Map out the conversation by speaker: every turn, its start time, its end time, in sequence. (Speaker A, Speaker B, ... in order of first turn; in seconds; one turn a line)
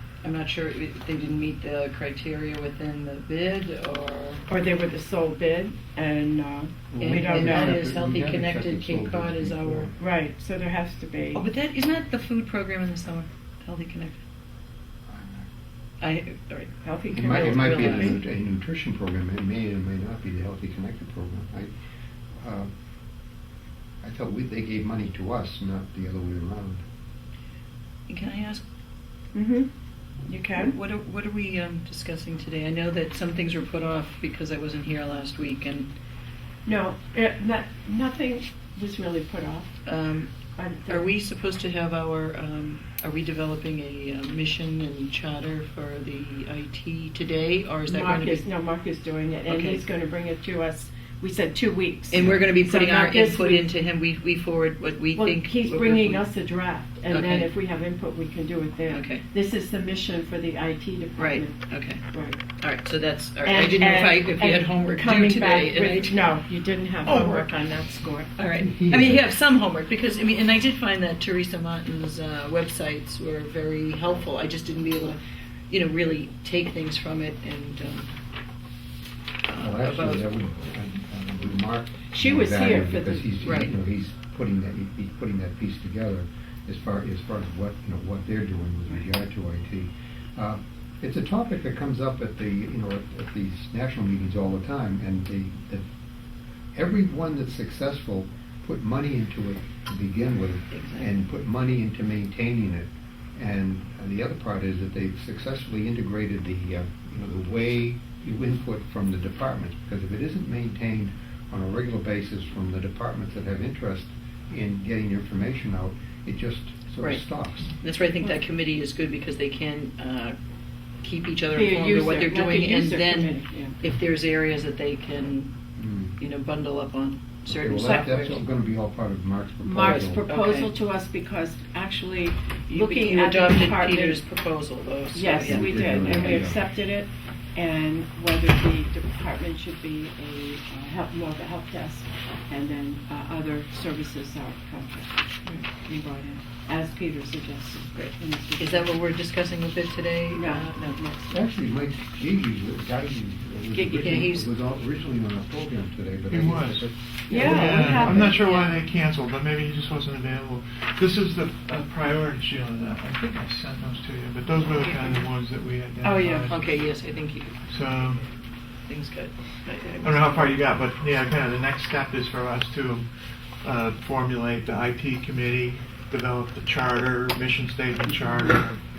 Speaker A: 0.2-4.4
Speaker B: 4.5-7.8
Speaker C: 6.9-9.9
Speaker A: 7.0-9.9
Speaker B: 10.0-11.4
Speaker A: 11.3-14.2
Speaker C: 15.1-15.4
Speaker A: 16.0-18.2
Speaker B: 16.7-18.2
Speaker C: 17.1-21.7
Speaker C: 22.4-22.7
Speaker C: 24.0-26.8
Speaker A: 28.1-28.6
Speaker B: 29.3-29.7
Speaker B: 30.2-30.7
Speaker A: 30.5-35.9
Speaker B: 36.6-39.8
Speaker A: 39.8-40.3
Speaker B: 40.5-41.1
Speaker A: 40.9-48.5
Speaker B: 47.9-53.7
Speaker A: 49.5-49.8
Speaker A: 52.1-56.3
Speaker B: 55.1-61.6
Speaker A: 57.1-57.5
Speaker A: 58.9-59.2
Speaker A: 61.2-66.2
Speaker B: 62.1-62.4
Speaker B: 63.4-68.3
Speaker A: 67.0-67.5
Speaker A: 68.3-78.1
Speaker C: 68.6-69.2
Speaker A: 79.5-80.3
Speaker C: 79.6-95.8
Speaker B: 82.1-83.4
Speaker A: 83.4-83.7
Speaker C: 96.7-117.7
Speaker A: 100.7-101.2
Speaker A: 117.8-120.3
Speaker A: 121.0-125.5
Speaker B: 121.5-123.8
Speaker C: 125.8-126.2
Speaker A: 126.2-128.6
Speaker C: 127.5-130.2
Speaker B: 129.6-134.2
Speaker A: 129.8-130.8
Speaker A: 132.7-136.5
Speaker B: 135.1-149.0
Speaker C: 135.4-136.6
Speaker A: 147.9-151.4
Speaker B: 150.3-150.7
Speaker C: 151.3-158.3
Speaker B: 153.7-154.3
Speaker A: 154.0-154.5
Speaker D: 156.3-166.8
Speaker B: 157.3-158.7
Speaker A: 158.4-158.7
Speaker A: 164.7-165.3
Speaker A: 166.0-167.6
Speaker D: 167.7-168.2
Speaker A: 168.8-170.6
Speaker D: 170.0-173.1
Speaker D: 173.6-178.8